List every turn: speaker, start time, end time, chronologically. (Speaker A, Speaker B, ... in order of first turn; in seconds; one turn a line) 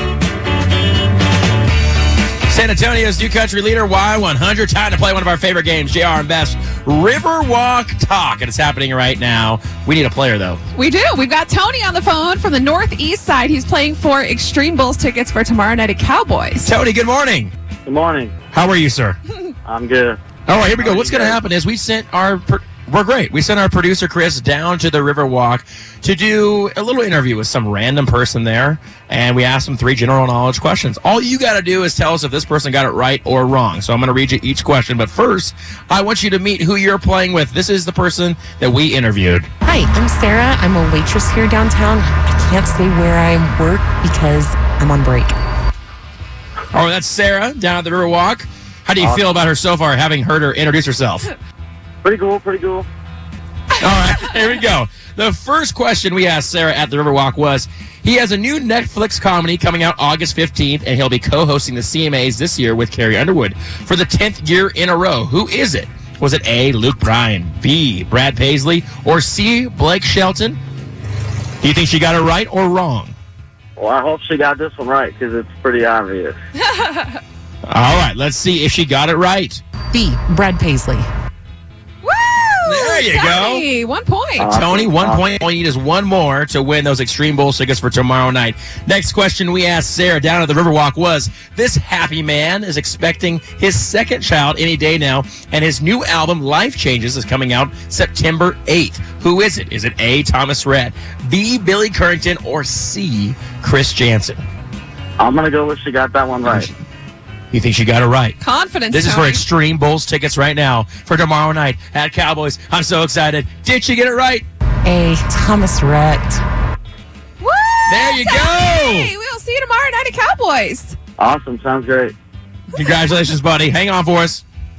Speaker A: 2.5-10.6
Speaker B: 10.7-16.7
Speaker A: 16.6-17.5
Speaker C: 17.9-18.4
Speaker A: 18.5-19.2
Speaker C: 19.6-21.4
Speaker A: 20.5-39.5
Speaker D: 39.6-45.3
Speaker A: 46.7-51.3
Speaker C: 49.0-49.4
Speaker C: 52.0-52.9
Speaker A: 53.8-70.6
Speaker A: 71.6-73.2
Speaker C: 73.8-76.4
Speaker B: 76.7-77.2
Speaker A: 77.7-79.6
Speaker D: 79.9-81.1
Speaker B: 82.0-84.5
Speaker A: 82.7-83.7
Speaker C: 84.4-85.3
Speaker A: 84.5-104.4
Speaker C: 105.2-106.7
Speaker A: 106.5-106.8
Speaker A: 107.5-108.4
Speaker B: 108.4-109.4
Speaker A: 108.9-114.5
Speaker D: 114.8-116.4
Speaker B: 117.4-121.0
Speaker A: 117.9-119.1
Speaker C: 121.2-122.1
Speaker A: 122.7-124.4